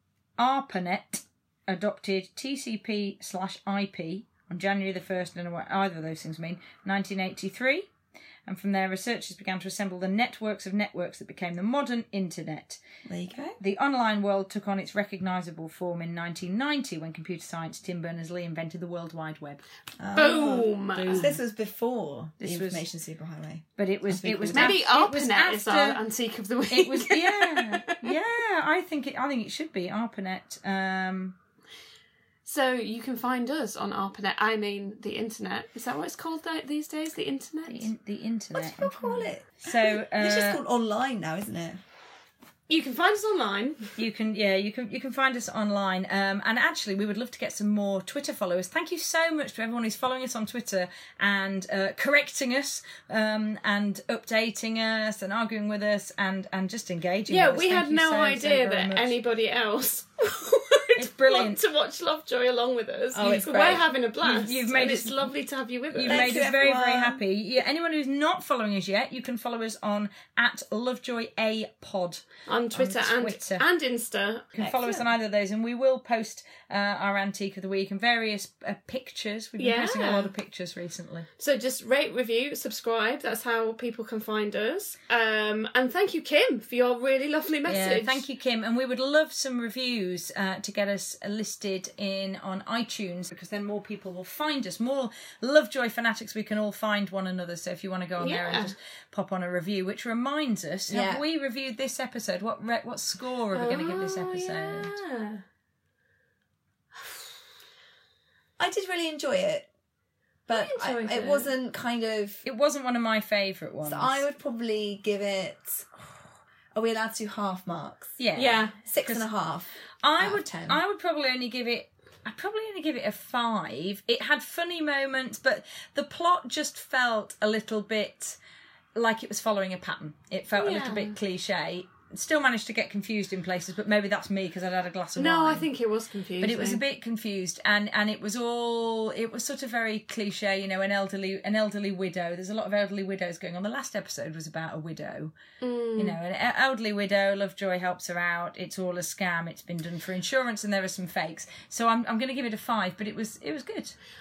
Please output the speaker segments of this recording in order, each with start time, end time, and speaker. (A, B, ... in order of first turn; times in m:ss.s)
0:00.4-0:07.9 A
0:08.5-0:12.8 A
0:13.0-0:13.6 B
0:13.6-0:19.6 A
0:20.0-0:24.8 B
0:20.1-0:21.3 C
0:20.9-0:21.4 A
0:22.4-0:22.9 A
0:23.8-0:26.0 A
0:24.5-0:28.1 C
0:26.7-0:31.3 A
0:32.4-0:37.9 C
0:37.7-0:40.6 A
0:38.5-0:41.8 B
0:42.7-0:43.9 C
0:44.0-0:59.2 A
0:57.3-1:06.5 C
1:01.0-1:01.6 A
1:03.1-1:03.9 B
1:04.2-1:05.3 A
1:05.9-1:13.6 A
1:06.0-1:07.2 B
1:12.5-1:15.0 C
1:14.6-1:21.3 A
1:19.6-1:20.3 C
1:21.4-1:28.2 C
1:27.7-1:45.0 A
1:38.2-1:38.7 C
1:40.9-1:41.2 B
1:43.5-1:45.4 C
1:48.6-1:49.7 B
1:50.5-1:52.4 B
1:50.5-1:51.5 C
1:52.4-1:54.2 A
1:53.8-1:56.2 B
1:56.7-1:58.2 B
1:58.2-1:59.3 A
1:58.3-1:58.7 C
1:58.8-2:00.8 B
2:00.0-2:08.4 A
2:09.0-2:15.7 A
2:10.6-2:11.1 C
2:15.2-2:16.8 C
2:16.4-2:25.3 A
2:25.6-2:26.2 C
2:26.0-2:34.0 A